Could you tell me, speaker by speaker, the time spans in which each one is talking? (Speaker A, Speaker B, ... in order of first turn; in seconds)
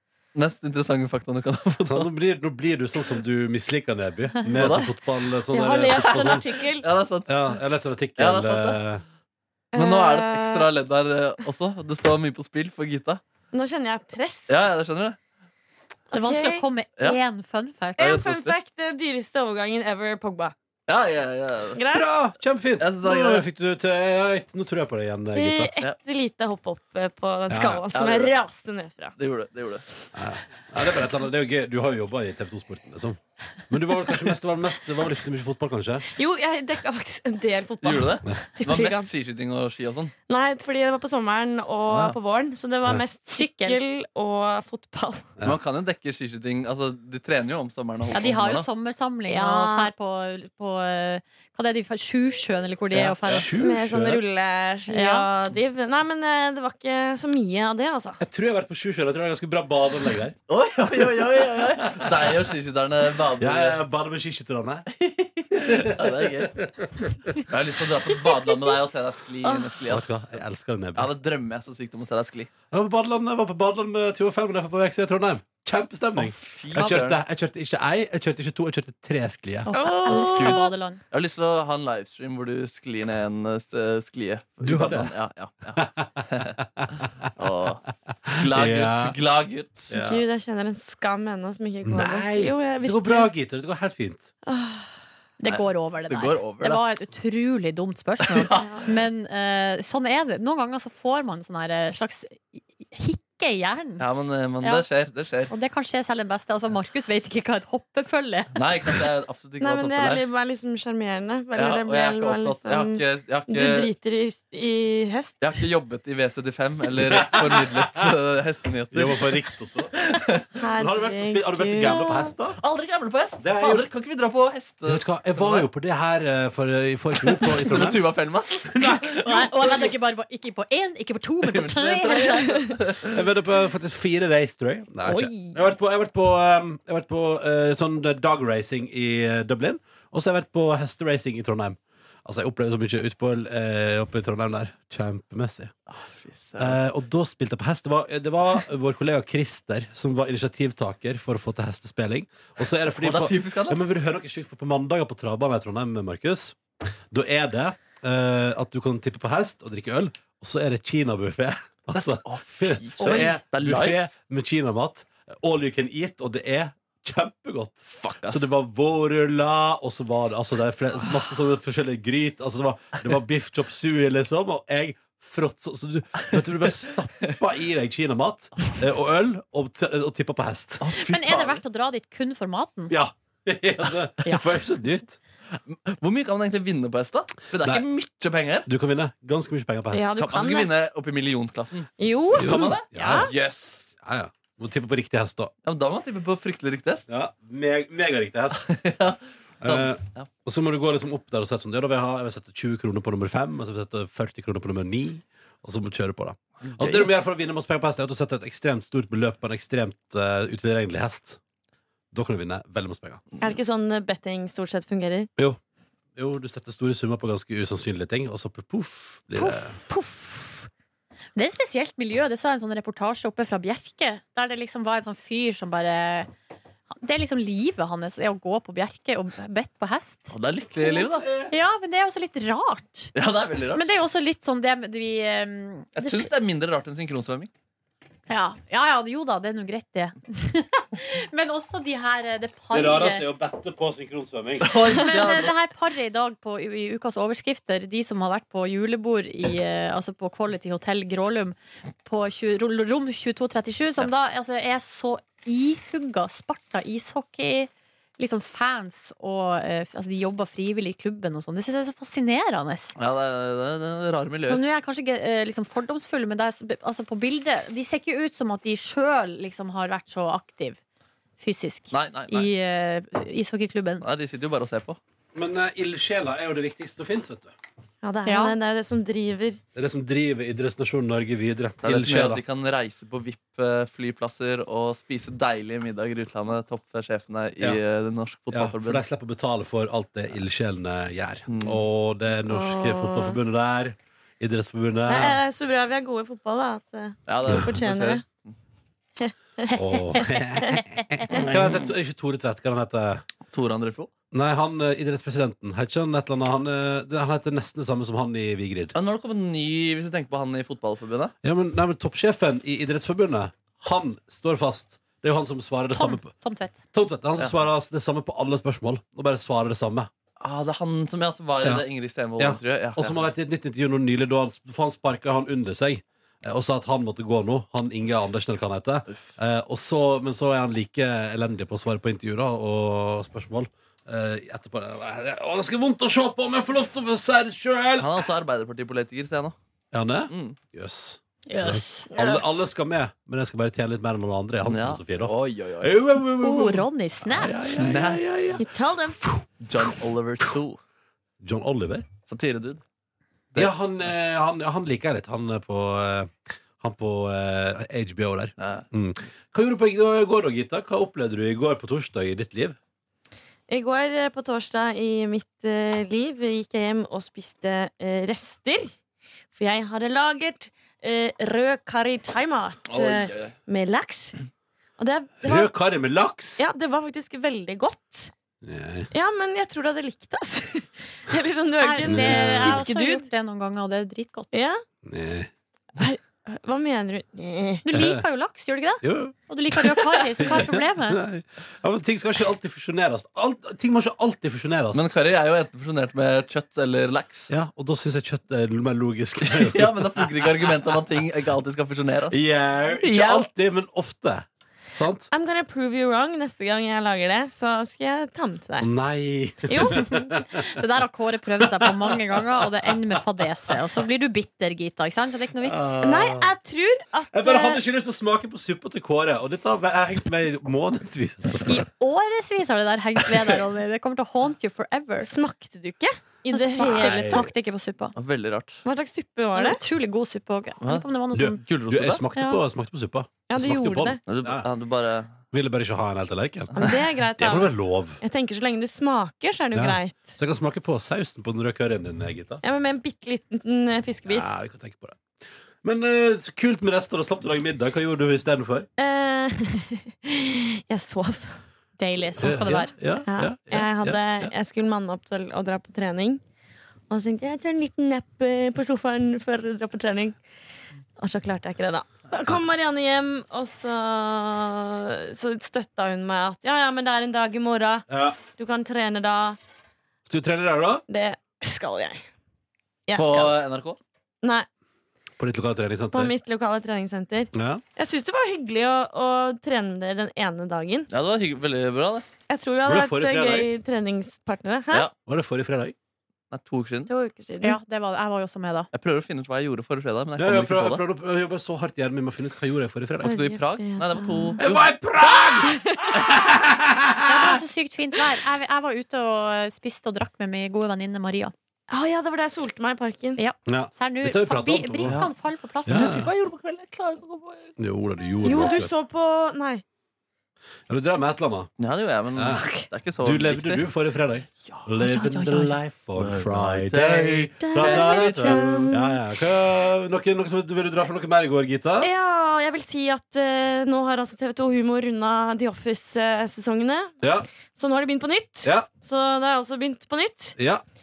Speaker A: 0.3-2.1, 4.5-4.9, 5.9-7.6, 8.2-8.8, 9.8-13.2, 14.5-15.2, 18.0-18.6, 20.9-21.9, 22.8-23.5, 27.9-28.4, 29.2-29.9, 37.8-40.1, 41.9-42.2, 45.4-48.7, 53.0-53.5, 60.5-63.8, 65.0-66.6, 67.5-70.2, 71.0-72.5, 76.2-77.2, 80.2-86.6, 87.4-89.9, 95.5-96.8, 98.2-98.8, 104.0-105.5, 108.5-110.2, 111.5-113.9, 115.4-119.3, 120.0-120.5, 122.6-125.7, 127.2-129.9, 131.4-133.3, 145.9-146.8, 152.9-153.8, 161.9-164.1, 167.9-168.5, 176.2-176.7, 180.8-181.6, 185.5-188.7, 190.2-193.9, 195.6-197.1, 198.6-200.3, 206.7-207.1, 230.3-231.3, 233.2-233.9, 236.0-237.5, 244.6-245.5, 263.0-264.6, 271.9-272.5, 274.0-275.0, 281.8-289.0, 291.5-291.8, 297.3-298.3, 303.5-304.1, 308.9-311.3, 320.4-323.2, 338.0-339.6, 340.3-340.6, 344.7-345.9, 347.8-348.6, 349.6-350.8, 352.3-352.8, 358.6-358.9, 372.9-373.5, 394.9-397.5, 399.5-402.4, 403.0-403.5, 428.1-428.8, 431.6-432.2, 434.3-435.3, 473.1-474.0, 481.1-482.3, 486.5-487.1, 488.9-491.0, 493.2-494.8, 505.1-505.3, 505.9-507.7, 511.8-513.9, 514.8-518.8
Speaker B: 1.9-6.5, 7.3-9.0, 21.9-25.8, 27.5-27.9, 30.1-36.1, 53.2-54.2, 58.2-60.4, 61.9-62.5, 63.4-64.9, 65.6-66.7, 69.9-71.1, 72.7-79.7, 84.6-85.1, 85.8-87.1, 88.3-89.2, 89.9-90.2, 91.8-94.3, 117.0-117.8, 118.9-120.0, 120.7-122.6, 123.4-123.9, 124.9-128.0, 128.7-129.4, 133.1-145.8, 146.6-156.6, 157.1-180.8, 182.9-185.2, 188.7-190.2, 192.3-193.3, 194.0-195.5, 197.1-198.6, 199.6-211.4, 212.1-213.3, 216.2-219.8, 242.7-245.0, 275.3-277.5, 279.8-282.4, 288.5-295.4, 299.8-303.2, 304.3-308.9, 311.4-316.3, 316.9-320.1, 322.4-338.2, 339.9-348.6, 349.1-349.9, 351.4-352.1, 353.5-362.8, 375.4-376.7, 378.6-379.1, 382.0-382.9, 385.1-385.5, 387.9-388.2, 389.0-395.1, 397.5-400.7, 402.3-405.3, 408.8-410.6, 411.6-412.9, 415.6-416.6, 417.3-421.8, 426.8-427.5, 431.3-434.7, 435.5-438.2, 439.7-442.6, 444.2-445.2, 445.8-448.9, 452.4-454.5, 468.1-468.4, 470.3-471.0, 475.4-476.4, 477.5-477.8, 482.8-483.7, 485.3-485.9, 490.4-493.5, 494.6-497.6, 503.6-505.2, 505.9-506.3, 507.8-509.0, 510.9-511.7, 512.3-512.6, 513.2-522.1, 527.2-527.5, 528.6-528.9, 530.6-530.8
Speaker C: 5.5-6.9, 9.7-10.7, 13.5-14.6, 16.1-16.7, 18.0-20.6, 21.7-22.1, 25.4-29.1, 36.1-39.1, 40.3-45.3, 49.3-49.9, 53.6-58.2, 68.5-68.7, 69.4-69.8, 79.7-80.7, 89.9-93.3, 94.5-94.9, 98.5-98.9, 109.6-115.4, 120.6-122.3, 189.9-190.7, 192.0-193.3, 213.4-215.3, 278.0-279.6, 292.5-293.4, 295.1-298.2, 299.2-300.8, 348.6-349.2, 363.7-368.9, 369.5-374.4, 375.0-375.7, 376.6-378.3, 379.1-383.3, 384.5-384.8, 386.0-387.9, 405.3-408.9, 409.7-410.2, 416.0-417.8, 425.2-427.5, 428.8-429.8, 433.5-434.2, 436.8-440.4, 442.6-444.5, 449.0-451.6, 453.3-456.4, 457.1-460.4, 461.2-469.6, 471.1-472.2, 473.1-473.5, 476.1-481.1, 482.5-485.1, 487.1-487.8, 493.2-494.6, 495.6-496.2, 501.9-503.4, 508.4-509.8, 512.6-512.9, 517.6-519.2, 522.0-527.1, 527.8-530.6
Speaker D: 16.1-18.0, 43.3-43.8, 48.1-53.7, 54.9-55.3, 79.7-81.0, 95.4-104.0, 105.5-108.5, 129.2-132.6, 135.1-135.6, 181.0-182.9, 219.4-220.7, 221.4-226.3, 227.0-230.3, 231.4-233.2, 233.7-236.3, 238.3-243.3, 245.0-262.9, 264.5-270.8, 271.4-274.0, 278.3-278.6, 300.2-300.8, 315.9-316.8, 341.5-342.7, 346.4-347.9, 381.8-384.5, 387.8-391.2, 410.1-415.9, 421.7-425.3, 426.5-428.1, 429.5-431.6, 452.0-452.9, 487.6-488.9, 497.2-501.5, 503.4-506.2